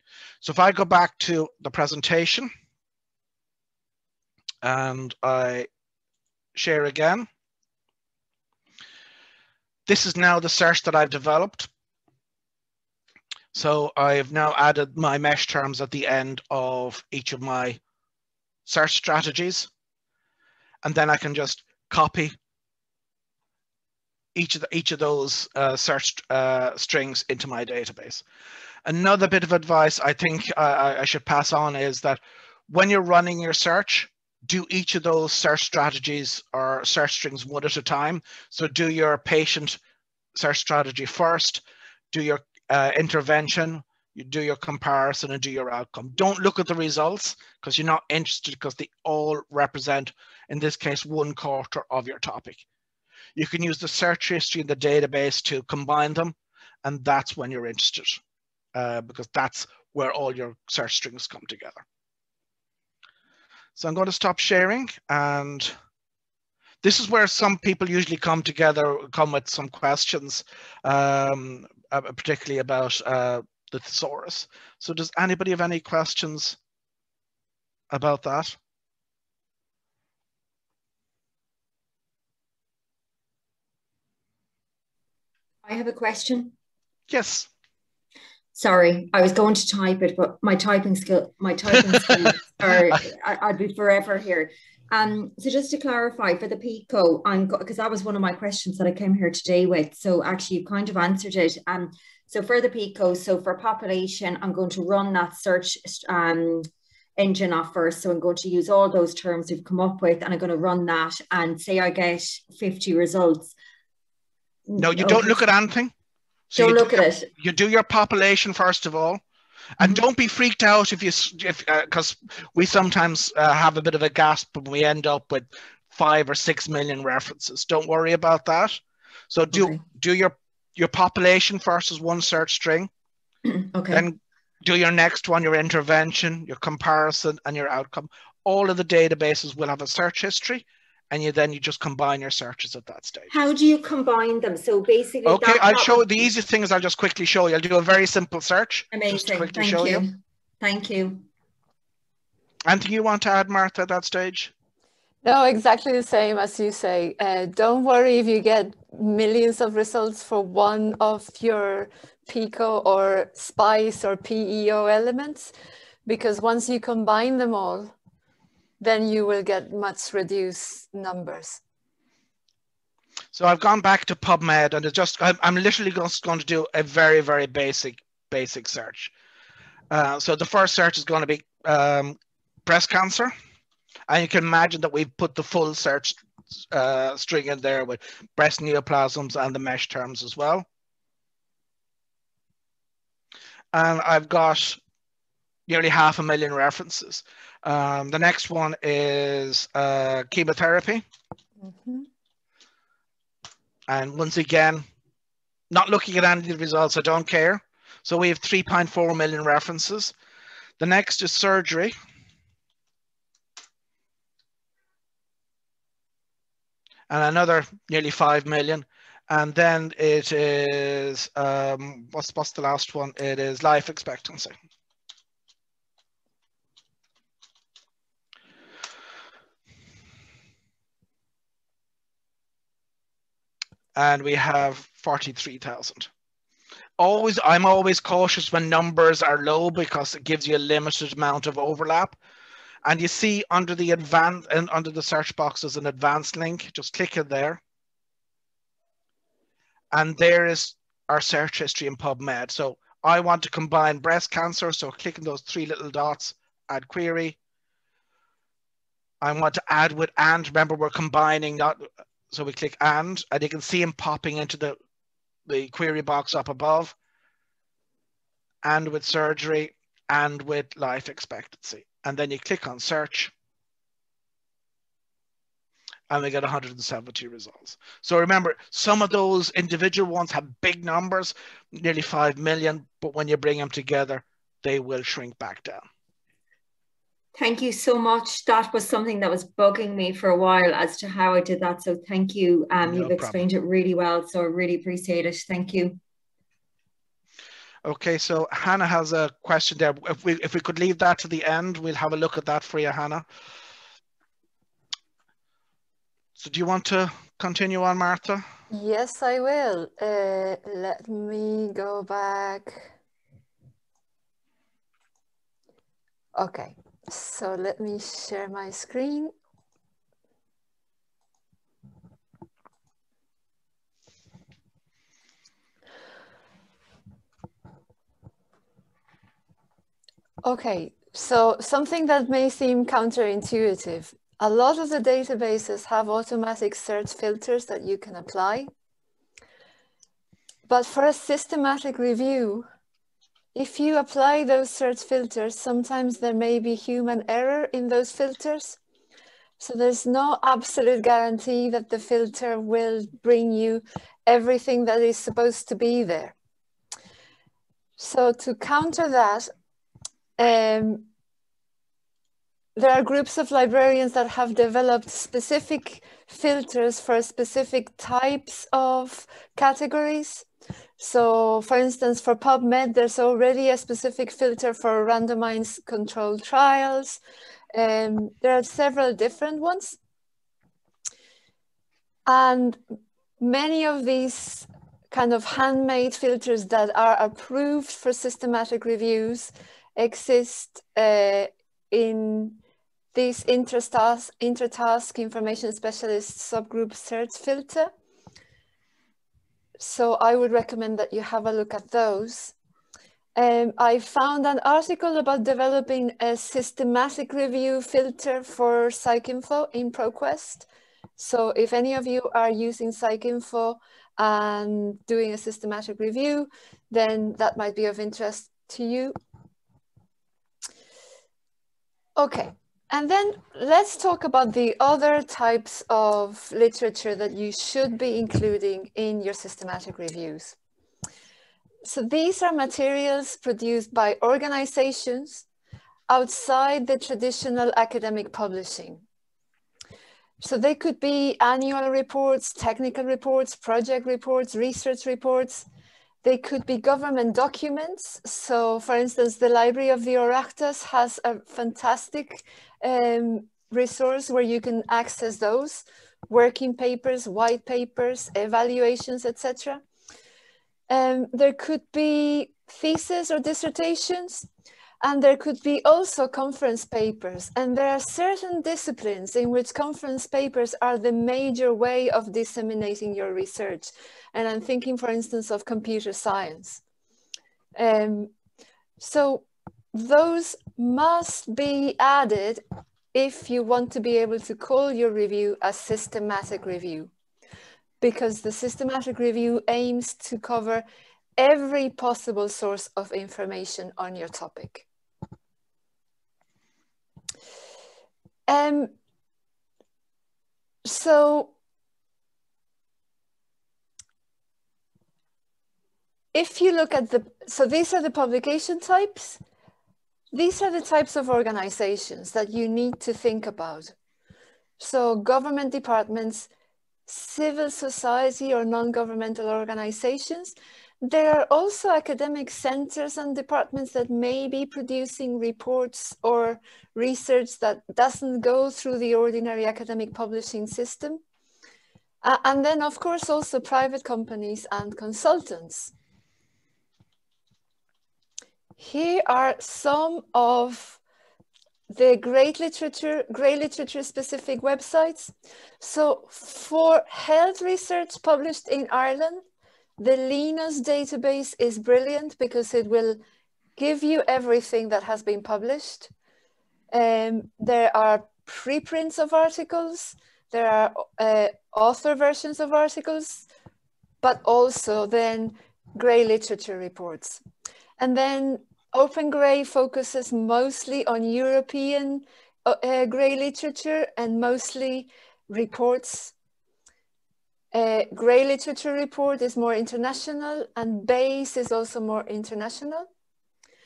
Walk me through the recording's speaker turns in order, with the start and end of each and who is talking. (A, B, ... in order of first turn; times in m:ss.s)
0:00.4-0:02.5 A
0:04.6-0:05.7 A
0:06.5-0:07.3 A
0:09.9-0:11.7 A
0:13.5-0:17.8 A
0:18.6-0:19.7 A
0:20.8-0:22.3 A
0:24.3-0:28.2 A
0:28.8-0:39.8 A
0:40.3-0:52.6 A
0:53.3-0:58.2 A
0:58.7-1:01.8 A
1:03.8-1:05.7 A
1:06.8-1:16.6 A
1:17.9-1:18.6 A
1:25.6-1:26.5 B
1:27.1-1:27.5 A
1:28.5-1:53.5 B
1:31.8-1:32.3 A
1:54.7-1:55.4 B
1:54.8-1:55.9 A
1:56.5-1:59.2 A
1:56.5-1:57.3 B
1:59.8-2:12.9 A
2:09.5-2:09.8 B
2:13.5-2:14.1 B
2:13.9-2:23.3 A
2:23.3-2:26.0 B
2:25.2-2:30.0 A
2:28.9-2:31.3 B
2:32.6-2:34.5 A
2:35.2-2:45.5 C
2:46.0-2:47.9 C
2:48.8-2:51.6 C
2:53.3-2:59.1 A
2:59.9-3:03.3 A
3:04.1-3:10.6 A
3:13.7-3:14.8 A
3:15.7-3:21.0 A
3:21.6-3:22.1 C
3:23.9-3:24.8 A
3:25.7-3:30.1 A
3:30.8-3:31.9 A
3:37.1-3:44.5 A
3:53.9-3:56.1 A
3:57.0-4:02.2 A
4:02.8-4:07.6 A
4:09.9-4:17.4 A
4:19.2-4:24.8 A
4:25.5-4:26.9 A
4:28.6-4:33.3 A
4:36.1-4:45.8 A
4:47.3-4:56.0 B
4:52.8-4:53.4 A
4:57.8-5:03.2 A
5:06.4-5:08.4 A
5:08.7-5:12.9 C
5:16.4-5:19.3 C
5:30.4-5:38.7 C
5:40.7-5:42.7 C
5:43.5-5:48.8 C
5:49.6-5:56.4 C
5:58.0-5:59.5 C
6:00.4-6:01.1 C
6:02.8-6:10.5 C
6:11.0-6:17.2 C
6:17.7-6:20.0 C
6:22.3-6:22.8 C
6:23.4-6:32.6 C
6:33.1-6:37.9 C
6:39.8-6:42.5 C
6:43.4-6:59.1 C
7:02.2-7:10.6 C
7:11.8-7:15.4 C
7:16.1-7:19.0 C
7:20.4-7:25.7 C
7:26.2-7:39.8 C
7:40.9-7:44.5 C
7:45.0-7:56.8 C
7:57.8-7:58.3 C
7:59.0-8:02.6 C
8:03.1-8:07.1 C
8:08.0-8:10.8 C
8:11.4-8:14.9 C
8:18.5-8:18.9 C
8:20.8-8:21.5 C
8:26.3-8:29.4 C
8:30.3-8:33.9 C
8:34.8-8:36.5 C
8:37.1-8:51.2 C
8:52.2-8:55.9 C
8:58.8-9:01.0 C
9:01.9-9:09.4 C
9:10.0-9:13.2 C
9:13.8-9:16.1 C
9:16.9-9:23.4 C
9:24.2-9:27.4 C
9:28.0-9:36.3 C
9:37.7-9:43.1 C